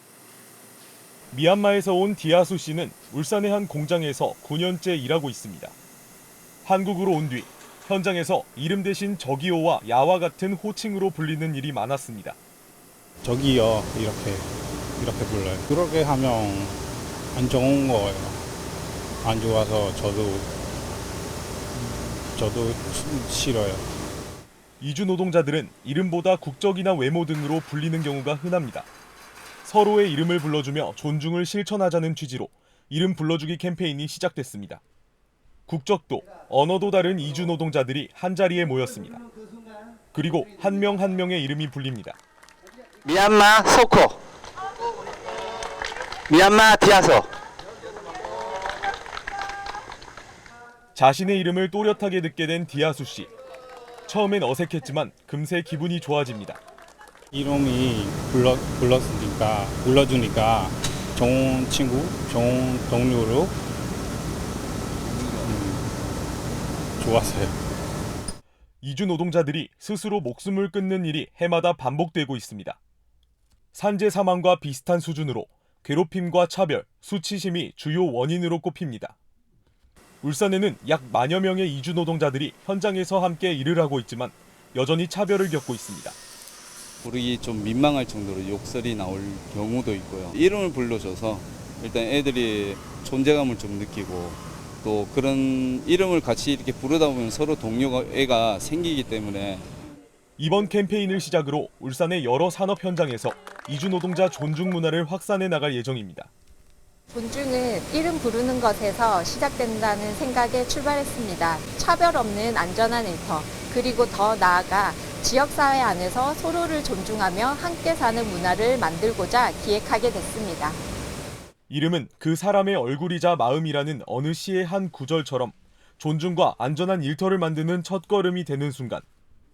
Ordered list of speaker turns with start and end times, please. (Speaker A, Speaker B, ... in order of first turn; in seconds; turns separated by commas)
Speaker A: 1.3-5.7, Speaker A: 6.6-12.4, Speaker B: 13.2-16.8, Speaker B: 17.3-18.4, Speaker B: 19.2-20.5, Speaker B: 21.8-23.8, Speaker A: 24.8-28.9, Speaker A: 29.6-34.8, Speaker A: 35.7-39.2, Speaker A: 40.1-42.2, Speaker C: 43.0-44.2, Speaker C: 46.3-47.3, Speaker A: 51.0-53.3, Speaker A: 54.1-56.6, Speaker B: 57.3-63.5, Speaker D: 65.1-65.6, Speaker B: 65.4-65.9, Speaker B: 67.0-67.6, Speaker A: 68.8-72.8, Speaker A: 73.7-79.2, Speaker A: 80.2-86.2, Speaker D: 87.0-99.7, Speaker A: 100.4-106.3, Speaker E: 107.1-120.8, Speaker A: 121.7-129.0